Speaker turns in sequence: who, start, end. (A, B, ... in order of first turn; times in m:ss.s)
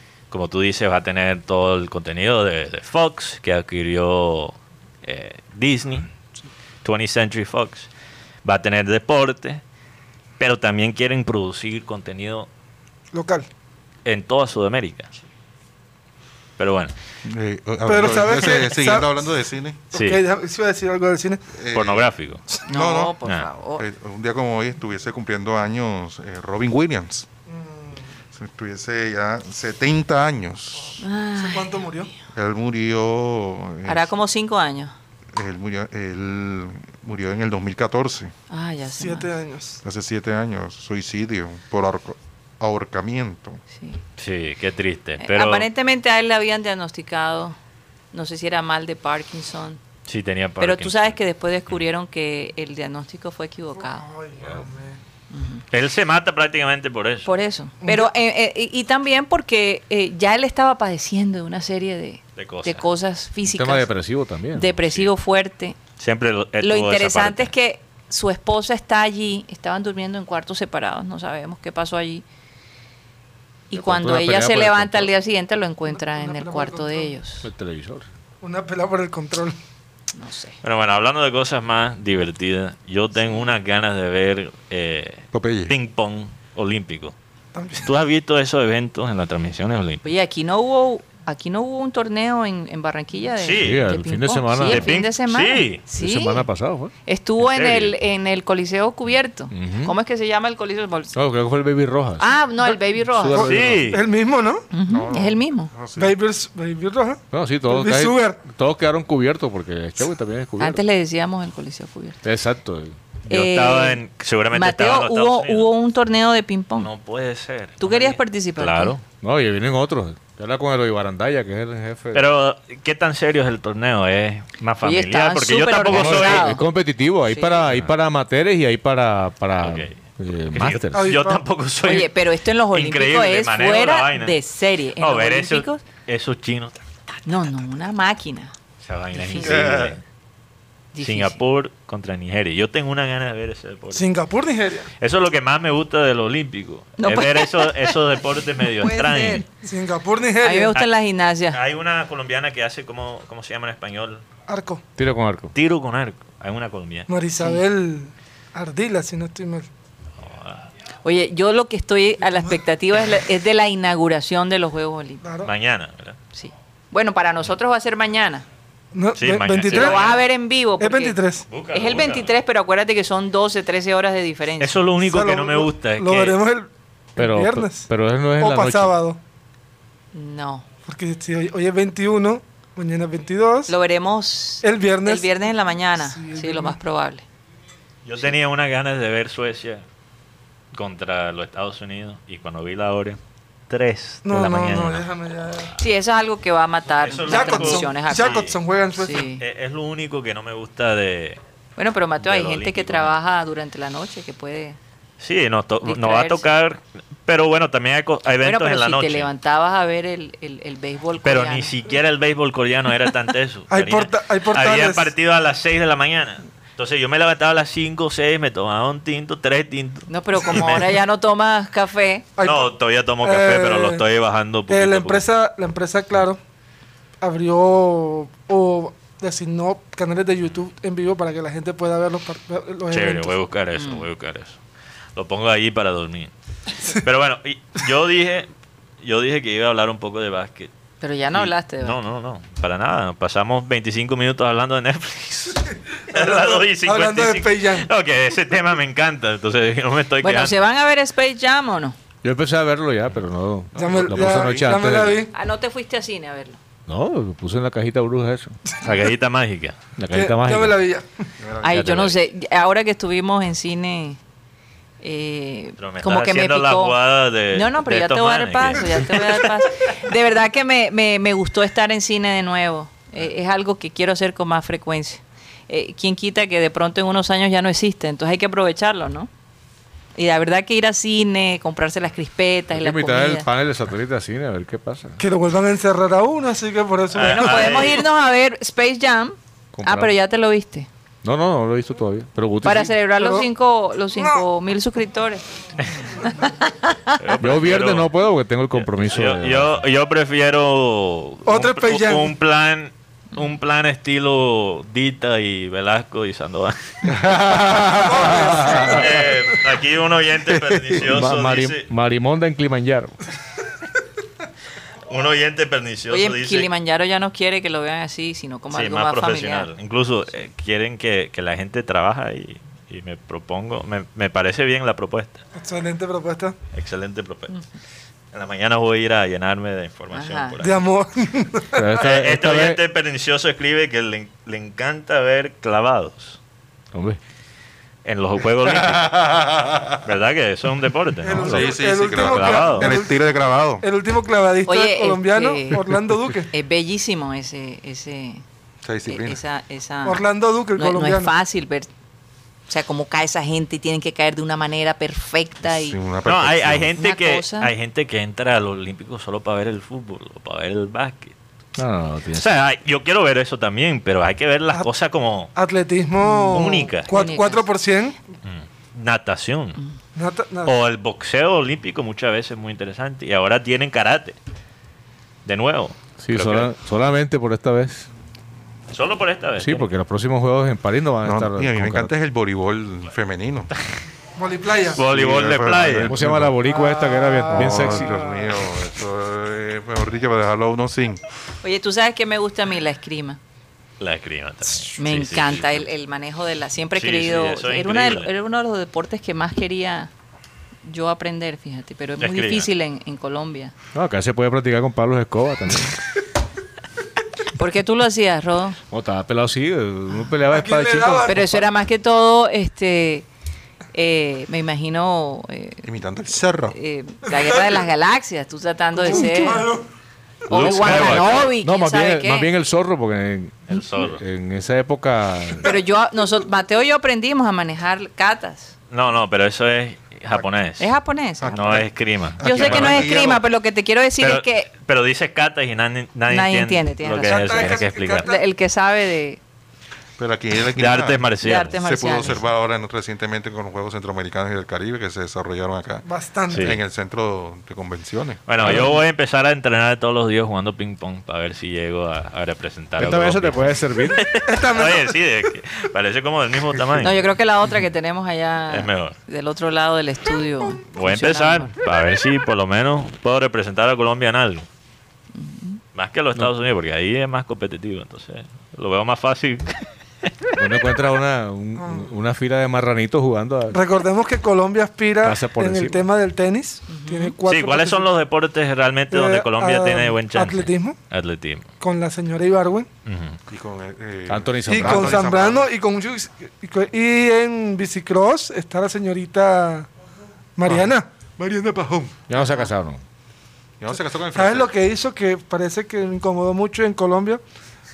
0:00.3-0:06.1 A
0:06.8-0:07.9 A
0:08.4-0:09.6 A
0:10.4-0:12.5 A
0:13.1-0:13.5 B
0:14.0-0:15.1 A
0:16.6-0:16.9 A
0:17.2-0:19.9 C
0:17.8-0:19.2 B
0:19.9-0:21.4 B
0:19.9-0:20.2 A
0:21.5-0:23.2 C
0:21.7-0:22.4 A
0:22.6-0:23.8 D
0:23.8-0:27.3 C
0:27.5-0:28.0 B
0:28.3-0:31.0 C
0:31.0-0:32.1 D
0:31.4-0:32.1 B
0:32.3-0:34.1 C
0:33.8-0:34.9 D
0:35.3-0:38.3 C
0:38.5-0:39.3 D
0:38.9-0:39.8 B
0:39.8-0:43.6 C
0:43.7-0:44.0 D
0:44.2-0:45.7 A
0:45.2-0:47.6 D
0:48.1-0:49.8 D
0:50.1-0:51.2 A
0:50.6-0:54.0 D
0:53.8-0:55.0 B
0:55.3-0:55.6 D
0:55.7-0:57.3 A
0:57.2-1:03.9 D
0:57.8-0:58.1 B
1:02.4-1:02.8 A
1:03.4-1:04.9 E
1:04.5-1:05.8 D
1:06.0-1:07.5 A
1:06.6-1:12.2 D
1:13.7-1:17.5 D
1:13.7-1:15.1 E
1:15.9-1:17.1 B
1:17.4-1:18.0 E
1:18.4-1:19.6 B
1:20.1-1:20.6 D
1:20.6-1:27.1 A
1:25.3-1:25.7 C
1:27.5-1:27.9 B
1:27.8-1:30.0 A
1:30.0-1:36.5 D
1:33.4-1:33.8 A
1:33.6-1:35.0 E
1:34.6-1:35.8 A
1:36.0-1:36.9 E
1:37.0-1:41.1 D
1:37.4-1:37.9 A
1:39.5-1:39.9 E
1:41.1-1:42.3 E
1:42.2-1:43.5 D
1:43.1-1:43.8 E
1:43.4-1:44.6 B
1:43.4-1:44.0 A
1:44.7-1:45.7 D
1:44.9-1:46.2 C
1:46.0-1:48.4 B
1:47.3-1:50.8 E
1:50.6-1:52.2 D
1:52.2-1:53.0 E
1:53.3-1:55.7 A
1:53.3-1:54.0 D
1:54.5-1:56.9 D
1:56.8-1:59.0 A
1:57.8-1:59.0 D
1:59.2-2:02.3 E
2:02.1-2:06.6 A
2:04.8-2:06.6 D
2:05.9-2:11.1 E
2:07.3-2:07.6 D
2:09.6-2:10.0 A
2:10.5-2:12.1 A
2:10.9-2:11.4 B
2:11.8-2:15.8 D
2:12.7-2:14.4 A
2:15.0-2:16.8 A
2:17.2-2:18.5 D
2:18.8-2:20.0 A
2:19.2-2:19.5 D
2:19.3-2:20.0 C
2:20.9-2:21.4 D
2:21.0-2:24.0 A
2:23.9-2:24.9 B
2:25.0-2:29.4 A
2:27.0-2:28.0 D
2:28.6-2:29.4 D
2:29.6-2:30.7 B
2:30.4-2:31.6 D
2:31.5-2:34.2 A
2:34.5-2:34.8 B
2:35.0-2:35.5 E
2:35.5-2:37.1 A
2:37.1-2:39.7 B
2:40.2-2:40.6 A
2:41.0-2:45.2 D
2:42.3-2:42.6 B
2:45.2-2:45.5 B
2:45.4-2:46.2 A
2:46.3-2:48.4 D
2:48.9-2:50.1 B
2:49.2-2:50.2 A
2:49.6-2:54.8 D
2:50.8-2:51.5 B
2:51.5-2:52.3 A
2:54.6-2:56.4 A
2:55.0-2:59.2 B
2:57.2-2:58.9 E
3:00.1-3:00.6 D
3:00.8-3:03.7 B
3:03.7-3:07.2 D
3:04.6-3:06.8 B
3:08.0-3:09.8 A
3:10.7-3:13.2 A
3:13.7-3:15.1 A
3:14.2-3:15.7 B
3:15.8-3:18.4 D
3:17.0-3:18.6 A
3:17.2-3:19.3 B
3:19.0-3:19.4 D
3:19.4-3:21.4 A
3:21.8-3:24.8 D
3:22.2-3:23.2 A
3:25.2-3:29.3 A
3:25.8-3:26.4 D
3:28.4-3:31.8 D
3:31.2-3:40.9 A
3:33.7-3:35.1 B
3:40.1-3:42.3 D
3:42.4-3:42.7 B
3:42.4-3:45.2 A
3:43.2-3:44.0 B
3:44.7-3:46.4 B
3:47.2-3:53.4 B
3:52.9-3:54.6 A
3:53.8-3:54.1 D
3:55.2-3:56.3 A
3:56.8-3:58.5 A
3:59.0-4:00.7 A
4:01.0-4:02.0 D
4:01.3-4:10.6 A
4:06.1-4:07.9 B
4:10.2-4:12.0 D
4:12.2-4:15.3 E
4:13.7-4:14.8 C
4:13.8-4:15.3 B
4:15.3-4:16.6 D
4:16.9-4:18.6 E
4:18.8-4:19.8 A
4:20.0-4:20.8 E
4:20.1-4:21.2 B
4:21.4-4:21.8 C
4:21.6-4:24.2 D
4:21.6-4:22.1 A
4:25.0-4:27.0 D
4:25.8-4:29.5 A
4:27.5-4:39.3 D
4:40.1-4:43.5 D
4:42.7-4:45.2 E
4:45.2-4:47.8 B
4:47.1-4:48.0 A
4:47.2-4:50.9 D
4:49.7-4:50.1 E
4:51.2-4:52.9 E
4:52.6-4:55.4 D
4:53.1-4:53.5 B
4:54.1-4:54.4 B
4:56.2-4:57.2 D
4:57.2-4:58.1 A
4:57.4-4:59.7 E
4:58.7-5:07.1 A
5:01.4-5:02.3 B
5:07.3-5:08.8 E
5:07.9-5:09.2 B
5:08.4-5:11.9 A
5:10.5-5:11.0 C
5:11.0-5:13.2 E
5:15.1-5:16.7 A
5:16.1-5:19.7 D
5:18.7-5:25.4 A
5:25.6-5:26.5 B
5:26.7-5:27.5 A
5:28.3-5:30.8 A
5:30.1-5:30.6 D
5:30.6-5:31.9 B
5:31.7-5:32.8 E
5:32.0-5:36.4 A
5:36.9-5:37.2 E
5:38.0-5:39.2 A
5:38.6-5:40.0 C
5:40.0-5:42.9 A
5:41.2-5:43.2 B
5:41.3-5:43.8 C
5:43.8-5:46.5 B
5:44.6-5:45.8 D
5:46.5-5:48.4 D
5:48.8-5:49.4 C
5:49.1-5:50.2 D
5:50.0-5:51.3 B
5:50.7-5:51.9 D
5:52.7-5:56.0 D
5:55.7-5:56.9 C
5:56.2-6:01.3 A
5:57.0-5:57.7 D
6:01.8-6:02.5 E
6:02.3-6:05.5 A
6:05.6-6:08.2 B
6:06.2-6:07.7 D
6:06.5-6:07.2 A
6:08.4-6:09.8 A
6:10.1-6:10.7 B
6:10.6-6:14.4 A
6:15.4-6:16.7 A
6:16.2-6:18.1 E
6:18.9-6:19.9 A
6:19.6-6:22.1 E
6:21.2-6:23.7 C
6:24.4-6:25.0 B
6:24.9-6:26.2 A
6:25.0-6:26.6 C
6:26.0-6:28.1 E
6:26.7-6:28.5 B
6:27.5-6:31.2 C
6:31.6-6:33.4 D
6:34.0-6:35.9 A
6:35.0-6:40.1 D
6:37.0-6:38.3 A
6:40.8-6:43.7 D
6:42.2-6:42.7 A
6:43.9-6:46.0 E
6:47.5-6:48.8 D
6:48.9-6:51.6 E
6:50.5-6:51.4 B
6:51.3-6:53.3 D
6:53.9-6:55.8 D
6:55.8-6:56.8 C
6:56.7-6:59.7 D
6:57.4-6:57.8 B
6:58.9-6:59.8 B
7:00.5-7:02.5 D
7:00.5-7:05.7 E
7:00.5-7:01.5 A
7:03.7-7:04.2 A
7:05.6-7:08.7 D
7:08.9-7:10.9 A
7:10.8-7:11.8 D
7:11.4-7:13.4 C
7:11.5-7:13.2 A
7:12.4-7:14.7 D
7:14.2-7:18.3 A
7:16.3-7:19.4 D
7:17.2-7:18.4 B
7:20.2-7:28.8 C
7:20.8-7:21.8 A
7:21.4-7:22.3 D
7:26.0-7:26.7 B
7:26.5-7:26.8 A
7:28.5-7:37.2 A
7:28.6-7:28.9 E
7:33.0-7:34.2 E
7:34.4-7:35.1 B
7:37.0-7:41.7 D
7:38.7-7:39.2 A
7:40.9-7:44.6 A
7:45.3-7:45.8 D
7:45.9-7:49.9 A
7:50.6-7:53.8 E
7:51.8-7:52.1 B
7:53.7-7:58.1 B
7:55.2-7:56.0 E
7:56.9-7:57.3 D
7:57.5-8:01.7 A
7:59.1-8:01.0 B
8:01.8-8:02.9 B
8:03.0-8:03.4 A
8:03.5-8:05.7 C
8:04.3-8:05.3 E
8:04.7-8:09.9 B
8:10.6-8:12.1 B
8:11.4-8:12.1 C
8:12.3-8:13.0 E
8:13.8-8:14.7 C
8:14.3-8:17.4 B